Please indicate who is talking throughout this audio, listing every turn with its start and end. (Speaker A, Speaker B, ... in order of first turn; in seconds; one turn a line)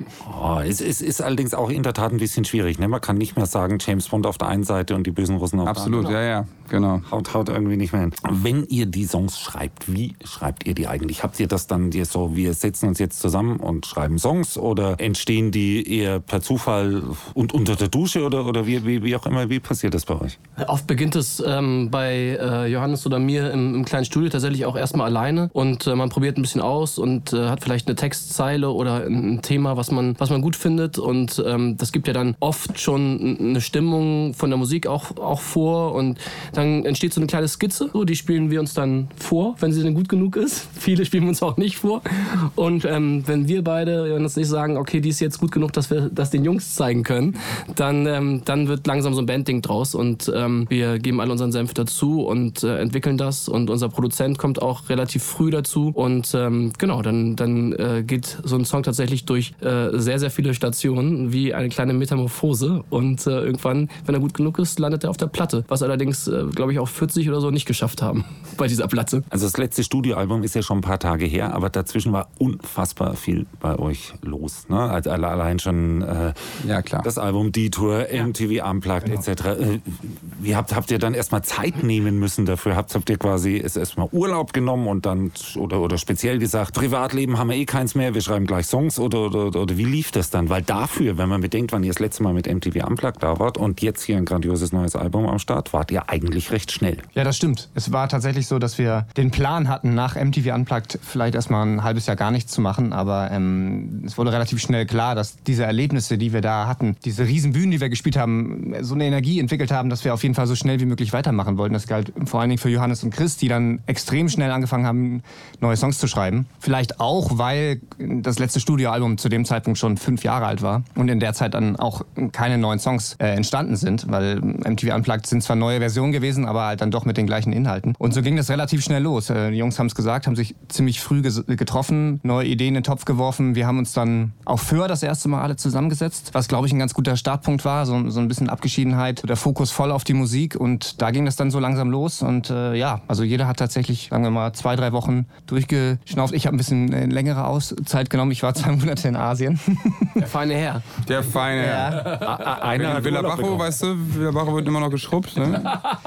Speaker A: 0.2-6.2
Speaker B: 5.7-7.1
Speaker A: 7.1-20.4
Speaker C: 20.6-69.2
Speaker A: 69.3-97.1
Speaker B: 76.6-77.1
Speaker D: 97.2-150.2
Speaker C: 150.2-150.8
Speaker B: 151.1-155.8
Speaker D: 151.6-152.1
Speaker C: 151.8-152.9
Speaker A: 152.3-153.7